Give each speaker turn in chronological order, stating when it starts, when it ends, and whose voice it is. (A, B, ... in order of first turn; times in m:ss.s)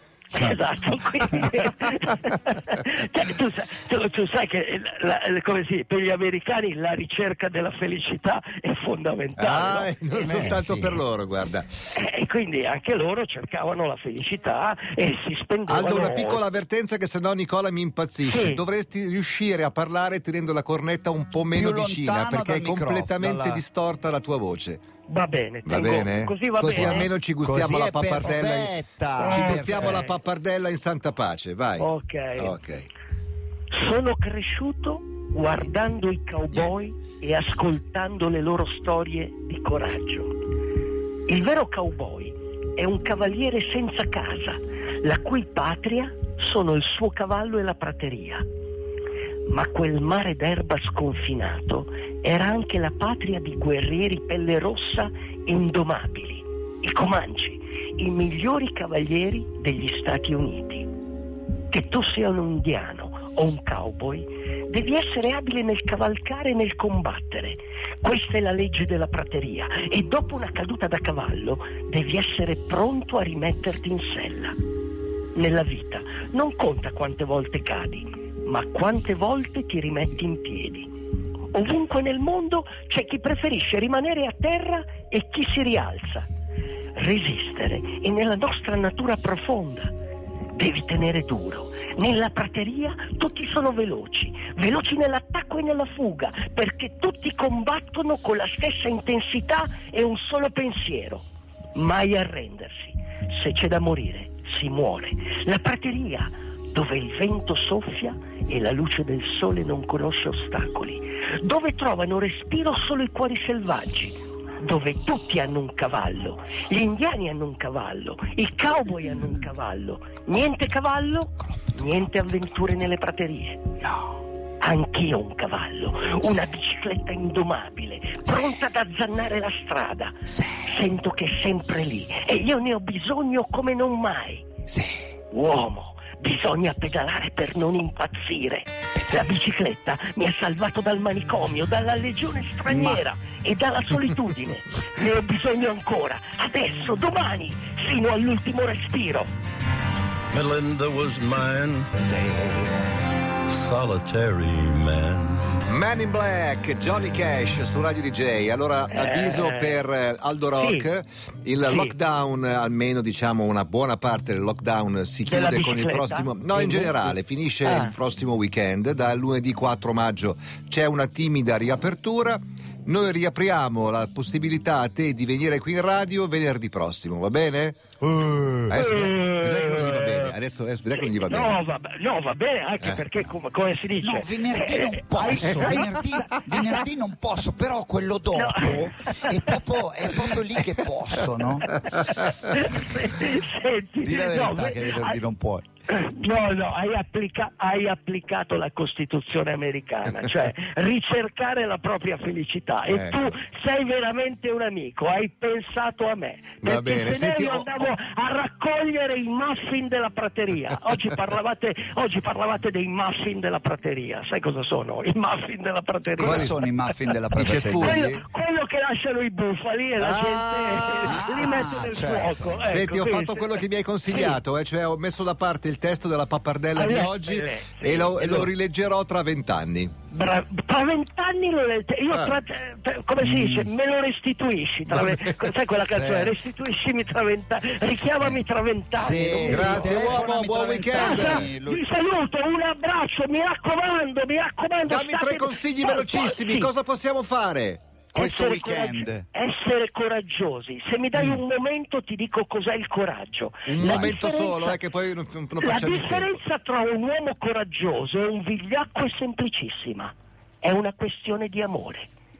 0:00.3-0:10.2 A
0:01.1-0:01.5 B
0:09.4-0:11.6 C
0:10.1-0:11.0 B
0:11.9-0:16.4 A
0:15.7-0:24.8 C
0:18.2-0:18.6 A
0:21.5-0:23.6 B
0:25.1-0:27.1 A
0:25.6-0:32.9 C
0:26.7-0:30.0 B
0:29.2-0:30.2 A
0:31.8-0:32.5 A
0:33.7-0:40.3 A
0:41.3-0:48.4 A
0:49.5-1:00.9 A
1:01.7-1:14.5 A
1:15.3-1:20.9 A
1:21.5-1:26.3 A
1:27.0-1:29.9 A
1:30.6-1:41.2 A
1:41.7-2:03.6 A
2:04.6-2:14.5 A
2:08.2-2:08.5 B
2:10.3-2:10.7 B
2:14.7-2:15.0 B
2:15.3-2:29.3 A
2:22.7-2:23.0 B
2:30.3-2:31.9 D
2:32.0-2:32.7 B
2:33.5-2:35.5 D
2:35.6-2:57.9 C
2:38.9-2:39.8 A
2:40.6-2:40.9 A
2:41.6-2:41.9 A
2:45.2-2:47.9 A
2:58.0-2:58.7 B
2:58.7-3:01.5 C
2:58.7-3:00.3 A
3:01.0-3:06.0 A
3:04.0-3:11.7 B
3:05.5-3:05.8 C
3:08.3-3:09.6 A
3:11.6-3:15.2 A
3:14.0-3:15.6 B
3:15.9-3:36.6 A
3:22.8-3:23.2 C
3:26.6-3:27.9 C
3:36.2-3:38.0 B
3:36.2-3:36.5 C
3:37.4-3:38.2 C
3:37.8-3:44.4 A
3:40.0-3:41.2 C
3:41.0-3:42.5 B
3:42.7-3:49.9 C
3:46.7-3:48.5 A
3:50.1-4:00.3 A
3:53.2-3:53.7 B
3:54.9-3:55.5 C
3:55.9-3:56.4 B
3:58.9-4:01.9 B
3:59.4-4:01.4 C
4:00.9-4:06.7 A
4:04.8-4:07.8 C
4:08.1-4:09.2 B
4:08.1-4:14.8 A
4:13.7-4:16.4 C
4:13.8-4:14.1 B
4:15.6-4:22.1 A